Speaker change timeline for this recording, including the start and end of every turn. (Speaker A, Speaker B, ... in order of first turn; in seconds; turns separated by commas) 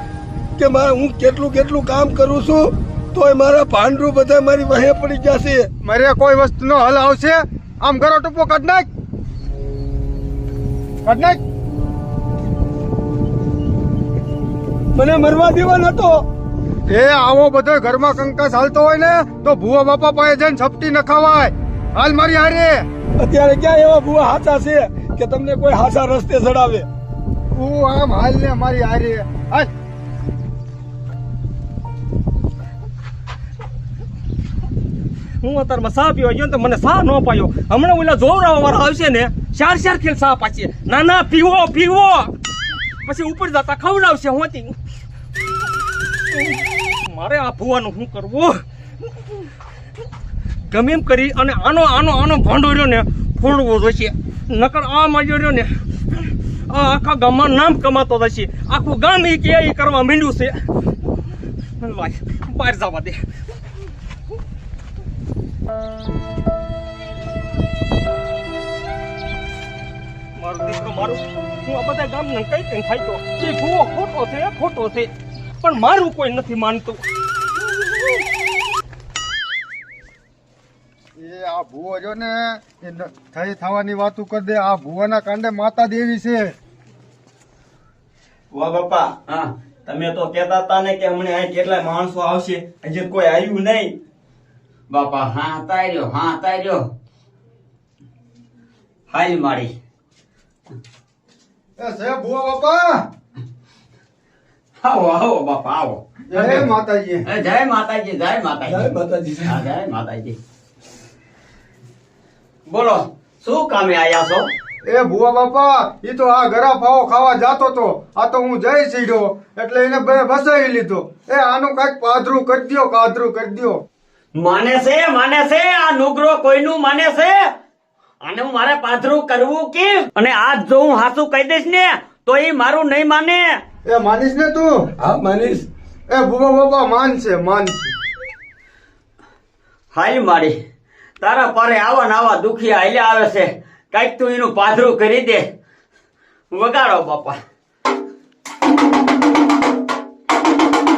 Speaker A: 0.6-5.7, Speaker B: 5.8-8.8, Speaker B: 11.0-11.4, Speaker A: 14.9-16.2, Speaker B: 16.9-22.8, Speaker A: 23.2-26.9, Speaker B: 27.5-29.7, Speaker C: 35.4-42.3, Speaker C: 43.0-44.7, Speaker C: 47.1-48.6, Speaker C: 50.7-55.7, Speaker C: 56.7-60.6, Speaker C: 61.8-63.2, Speaker C: 70.4-77.0, Speaker B: 81.2-86.5, Speaker D: 88.5-89.1, Speaker D: 89.8-93.9, Speaker E: 94.9-96.8, Speaker E: 99.1-99.7, Speaker B: 101.8-103.0, Speaker E: 104.8-106.7, Speaker B: 106.3-107.2, Speaker E: 107.2-108.9, Speaker A: 108.7-109.6, Speaker E: 109.4-110.4, Speaker E: 112.7-114.5, Speaker B: 114.9-123.8, Speaker E: 124.4-127.4, Speaker E: 128.2-133.6, Speaker B: 133.8-134.7, Speaker A: 135.0-135.7, Speaker B: 136.1-137.9, Speaker E: 139.9-140.6, Speaker E: 141.2-145.5, Speaker E: 146.5-147.4